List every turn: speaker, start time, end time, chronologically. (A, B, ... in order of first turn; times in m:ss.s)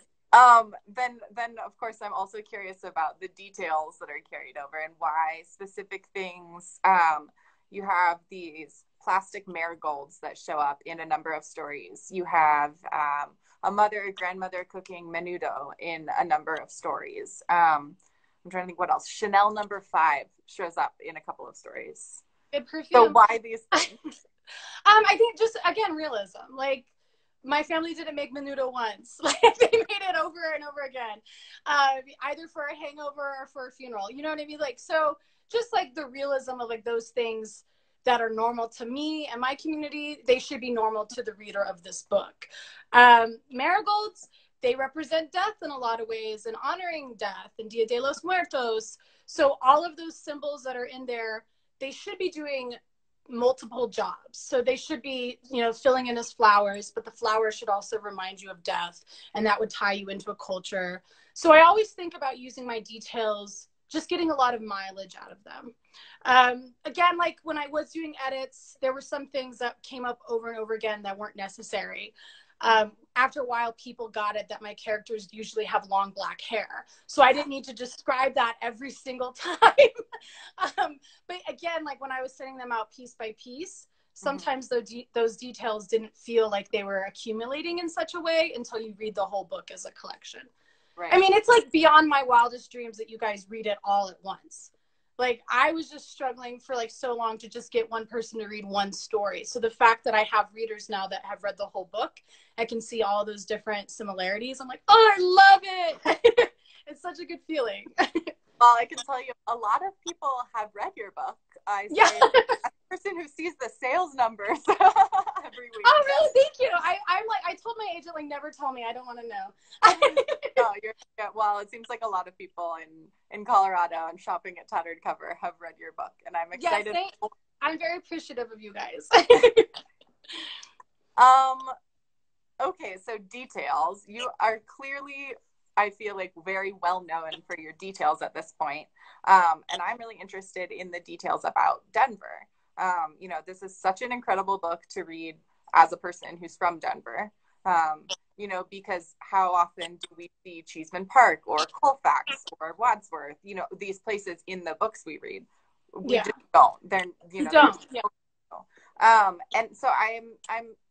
0:00.3-0:22.2 A
0:22.5-0:23.2 B
0:22.9-0:23.9 A
0:24.8-0:26.9 B
0:27.4-0:52.8 B
0:53.3-1:05.7 B
1:06.2-1:20.0 B
1:20.6-1:30.5 B
1:24.2-1:24.5 A
1:31.1-1:48.3 B
1:48.6-1:56.3 A
1:51.9-1:52.6 B
1:55.8-2:00.6 B
2:00.0-2:07.3 A
2:06.6-2:09.7 B
2:11.2-2:11.7 A
2:12.6-2:40.7 A
2:36.0-2:36.3 B
2:37.4-2:38.0 B